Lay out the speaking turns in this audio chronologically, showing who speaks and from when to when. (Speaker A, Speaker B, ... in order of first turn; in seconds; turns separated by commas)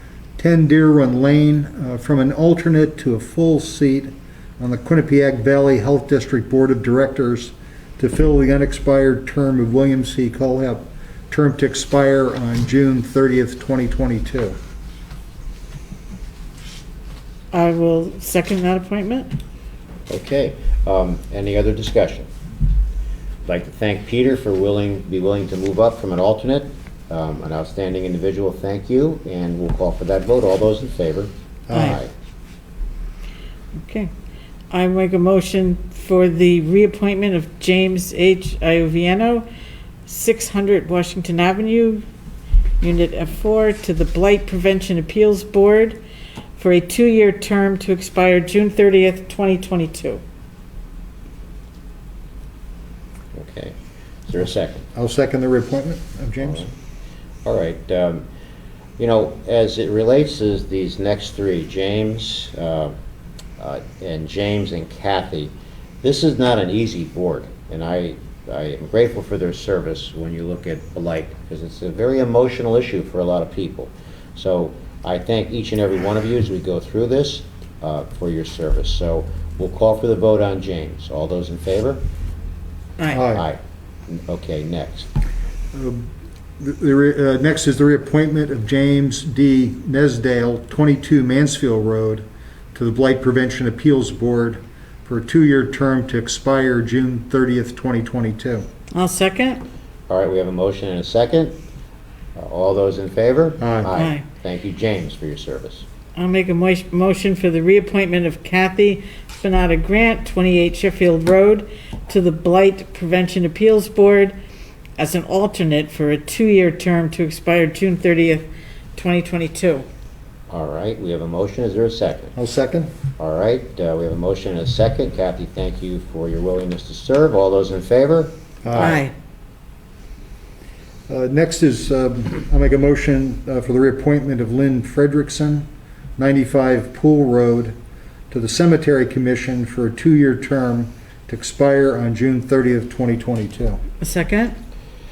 Speaker A: 0.4-14.6, Speaker B: 17.5-19.4, Speaker C: 20.1-22.3, Speaker C: 23.5-32.1, Speaker A: 31.7-32.0, Speaker B: 31.7-32.0, Speaker B: 33.8-34.1, Speaker B: 34.7-39.5, Speaker B: 40.1-42.0, Speaker B: 42.8-46.0, Speaker B: 46.6-50.2, Speaker C: 53.3-53.7, Speaker C: 54.3-54.8, Speaker A: 54.9-56.7, Speaker C: 56.4-56.7, Speaker C: 57.4-58.2, Speaker C: 59.0-62.9, Speaker C: 63.6-82.0, Speaker B: 83.0-83.3, Speaker A: 83.1-83.5, Speaker C: 83.3-85.1, Speaker A: 85.7-86.1, Speaker A: 86.6-98.7, Speaker B: 98.9-99.6, Speaker C: 100.1-101.6, Speaker C: 102.3-105.8, Speaker A: 103.6-103.9, Speaker B: 103.9-104.2, Speaker B: 106.2-114.3, Speaker B: 115.0-118.4, Speaker B: 119.0-119.8, Speaker C: 120.5-122.3, Speaker A: 122.3-122.9, Speaker C: 123.2-129.0, Speaker A: 128.6-129.0, Speaker B: 128.8-129.1, Speaker A: 131.1-135.7, Speaker A: 136.2-137.7, Speaker A: 138.3-143.8, Speaker B: 144.0-144.5